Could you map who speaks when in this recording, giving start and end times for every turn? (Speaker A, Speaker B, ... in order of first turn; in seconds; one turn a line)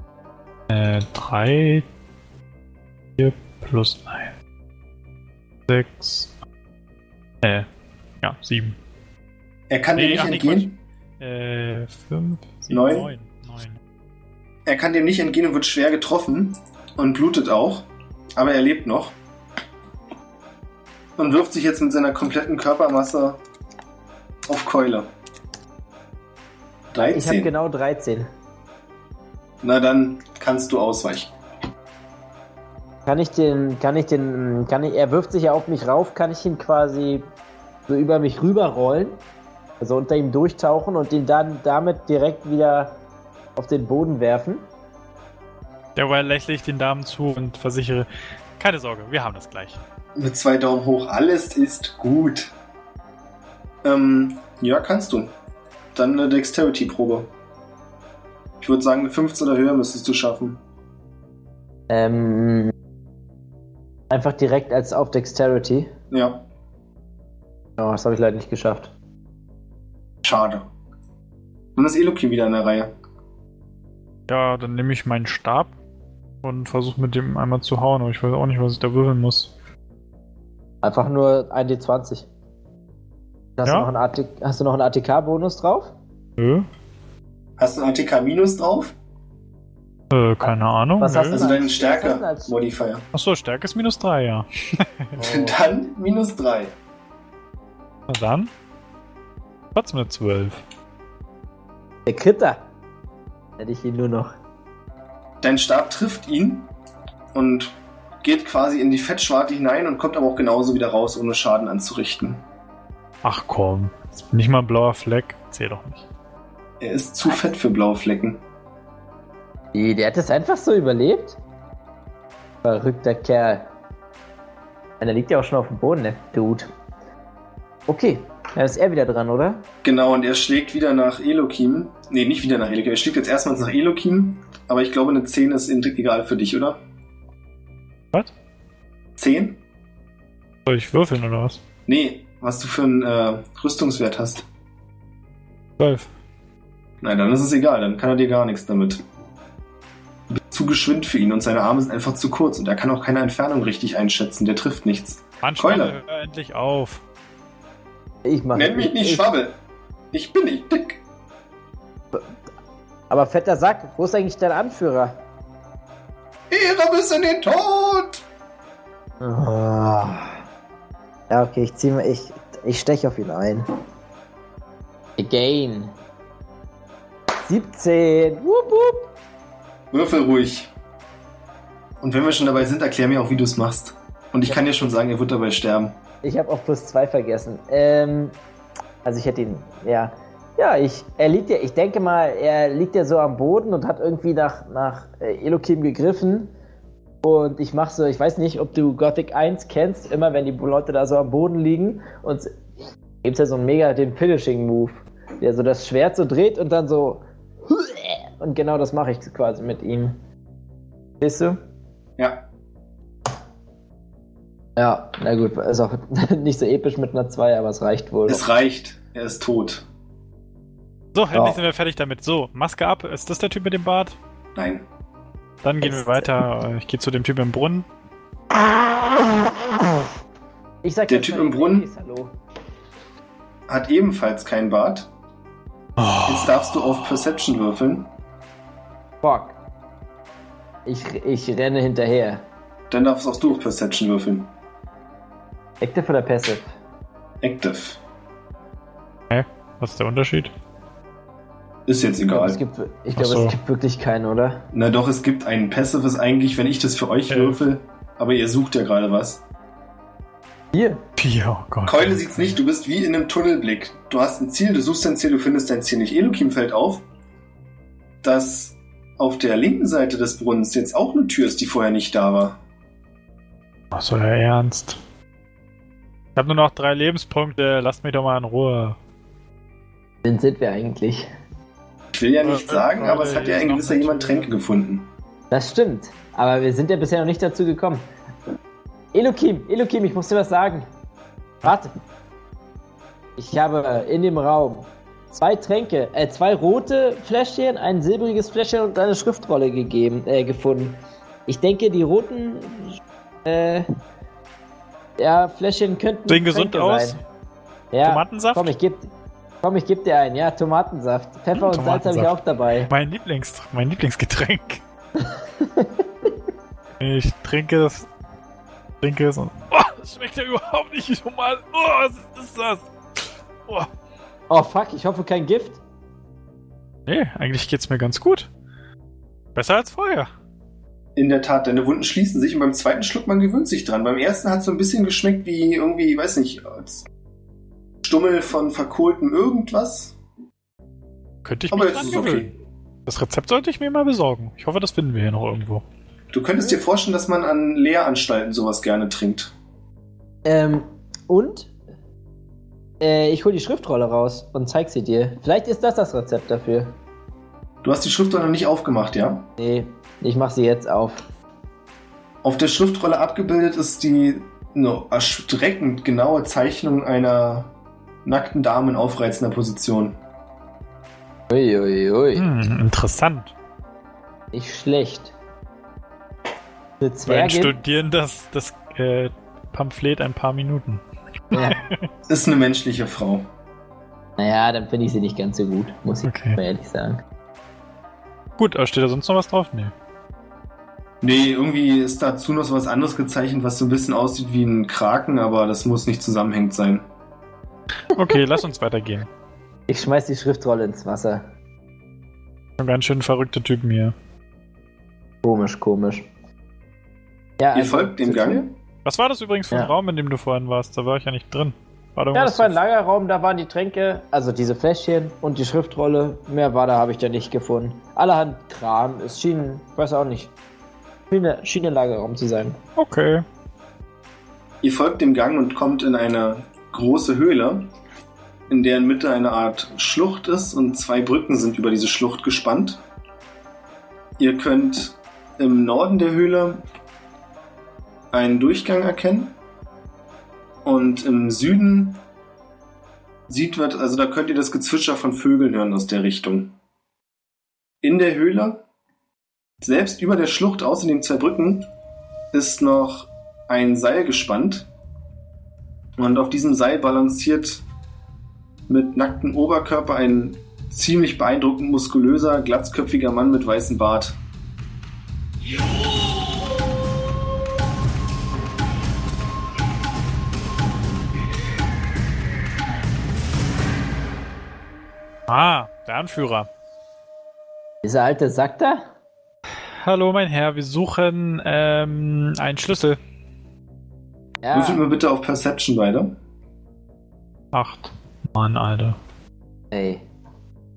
Speaker A: 0.7-1.9
Speaker A: 3.2-4.3
Speaker A: 5.7-6.3
Speaker A: 8.2-8.8
Speaker B: 9.7-10.8
Speaker A: 9.9-13.8
Speaker B: 12.7-13.1
Speaker B: 14.7-19.1
Speaker B: 21.2-23.4
Speaker B: 24.4-25.1
Speaker B: 26.9-27.5
Speaker C: 27.0-28.3
Speaker B: 29.6-31.3
Speaker C: 33.0-37.2
Speaker C: 37.9-39.2
Speaker C: 39.8-43.0
Speaker C: 43.5-44.6
Speaker A: 46.0-49.8
Speaker B: 50.1-52.5
Speaker B: 53.8-55.3
Speaker B: 55.9-57.3
Speaker B: 58.6-60.6
Speaker C: 61.9-62.7
Speaker C: 64.1-65.9
Speaker B: 66.1-66.4
Speaker C: 67.8-68.9
Speaker B: 70.2-70.7
Speaker B: 71.8-72.9
Speaker A: 74.3-75.7
Speaker A: 76.4-79.5
Speaker C: 80.8-82.3
Speaker C: 83.6-85.9
Speaker A: 86.4-86.7
Speaker B: 87.6-88.9
Speaker A: 90.1-91.4
Speaker C: 90.4-92.5
Speaker B: 91.3-93.0
Speaker A: 93.1-95.3
Speaker B: 95.2-96.7
Speaker A: 98.1-98.5
Speaker A: 99.7-100.6
Speaker C: 102.0-102.6
Speaker C: 103.6-104.3
Speaker B: 105.4-106.7
Speaker B: 107.3-112.4
Speaker A: 113.2-116.0
Speaker B: 116.8-118.4
Speaker C: 119.7-121.4
Speaker C: 122.6-123.7
Speaker C: 125.0-126.7
Speaker C: 127.9-129.6
Speaker B: 129.8-136.8
Speaker B: 139.2-139.6
Speaker A: 140.7-141.6
Speaker B: 141.9-144.4
Speaker A: 145.8-146.1
Speaker B: 147.0-149.0
Speaker B: 150.3-156.0
Speaker A: 155.4-157.0
Speaker C: 158.2-159.3
Speaker B: 158.5-159.6
Speaker B: 160.1-161.0
Speaker C: 163.1-165.2
Speaker B: 166.5-168.2
Speaker C: 169.2-170.4
Speaker C: 171.3-173.7
Speaker C: 175.2-175.9
Speaker C: 177.4-179.1
Speaker B: 179.9-180.7
Speaker B: 182.0-185.9
Speaker C: 186.2-188.3
Speaker C: 189.0-196.5
Speaker C: 197.2-202.5
Speaker C: 203.2-210.2
Speaker C: 211.2-211.6
Speaker B: 212.2-212.4
Speaker C: 214.8-218.4
Speaker B: 218.3-219.8
Speaker A: 221.1-224.2
Speaker C: 221.3-221.6
Speaker B: 224.6-224.8
Speaker A: 225.6-227.9
Speaker C: 225.8-226.3
Speaker C: 230.8-232.3
Speaker B: 231.1-231.8
Speaker B: 233.7-235.1
Speaker A: 236.0-236.9
Speaker B: 236.2-238.1
Speaker C: 239.2-239.6
Speaker C: 240.8-242.4
Speaker B: 242.9-244.5
Speaker C: 245.8-246.6
Speaker B: 247.4-248.0
Speaker A: 249.3-250.5
Speaker B: 251.9-252.6
Speaker C: 252.3-254.6
Speaker A: 253.2-253.6
Speaker B: 254.7-259.4
Speaker A: 257.3-257.6
Speaker C: 260.7-261.0
Speaker A: 261.2-262.6
Speaker B: 261.9-267.0
Speaker B: 268.2-272.6
Speaker A: 273.9-275.0
Speaker A: 276.4-279.0
Speaker C: 280.2-281.3
Speaker B: 282.1-285.1
Speaker A: 282.4-284.5
Speaker C: 285.5-288.1
Speaker C: 289.1-290.9
Speaker C: 291.6-291.9
Speaker C: 293.4-303.9
Speaker C: 305.2-307.2
Speaker A: 306.3-307.2
Speaker C: 307.9-309.1
Speaker A: 308.0-308.7
Speaker C: 309.6-312.9
Speaker A: 311.5-314.8
Speaker C: 315.2-316.1
Speaker A: 317.0-318.1
Speaker A: 319.0-323.9
Speaker C: 324.5-325.8
Speaker A: 327.1-328.5
Speaker A: 329.5-330.3
Speaker B: 331.1-337.1
Speaker B: 338.0-340.1
Speaker A: 341.4-342.5
Speaker B: 341.7-342.5
Speaker A: 343.1-345.8
Speaker B: 346.3-349.5
Speaker C: 350.4-351.7
Speaker C: 353.0-356.9
Speaker B: 357.8-359.4
Speaker C: 359.6-361.2
Speaker B: 362.4-367.7
Speaker B: 368.2-370.2
Speaker C: 371.5-372.5
Speaker A: 372.3-373.5
Speaker C: 374.5-375.3
Speaker C: 377.0-377.8
Speaker A: 377.3-382.1
Speaker C: 381.5-381.8
Speaker B: 382.3-383.5
Speaker C: 384.4-387.2
Speaker A: 386.2-386.6
Speaker A: 388.6-389.9
Speaker B: 391.2-397.1
Speaker A: 398.1-399.3
Speaker C: 399.9-401.4
Speaker A: 402.8-404.1
Speaker C: 405.4-406.3
Speaker C: 407.6-408.7
Speaker B: 407.7-408.7
Speaker A: 409.0-412.8
Speaker C: 412.3-420.5
Speaker C: 421.3-422.8
Speaker A: 423.0-423.4
Speaker B: 424.8-427.9
Speaker B: 428.7-433.0
Speaker B: 434.4-436.8
Speaker B: 438.3-439.6
Speaker B: 440.8-442.2
Speaker B: 443.5-446.7
Speaker B: 448.0-448.8
Speaker B: 449.8-451.9
Speaker B: 452.5-454.9
Speaker B: 456.2-457.8
Speaker B: 458.9-464.4
Speaker A: 475.5-476.7
Speaker C: 478.0-479.1
Speaker A: 480.0-483.2
Speaker C: 484.6-485.0
Speaker B: 484.7-486.3
Speaker A: 487.7-489.2
Speaker C: 489.9-490.2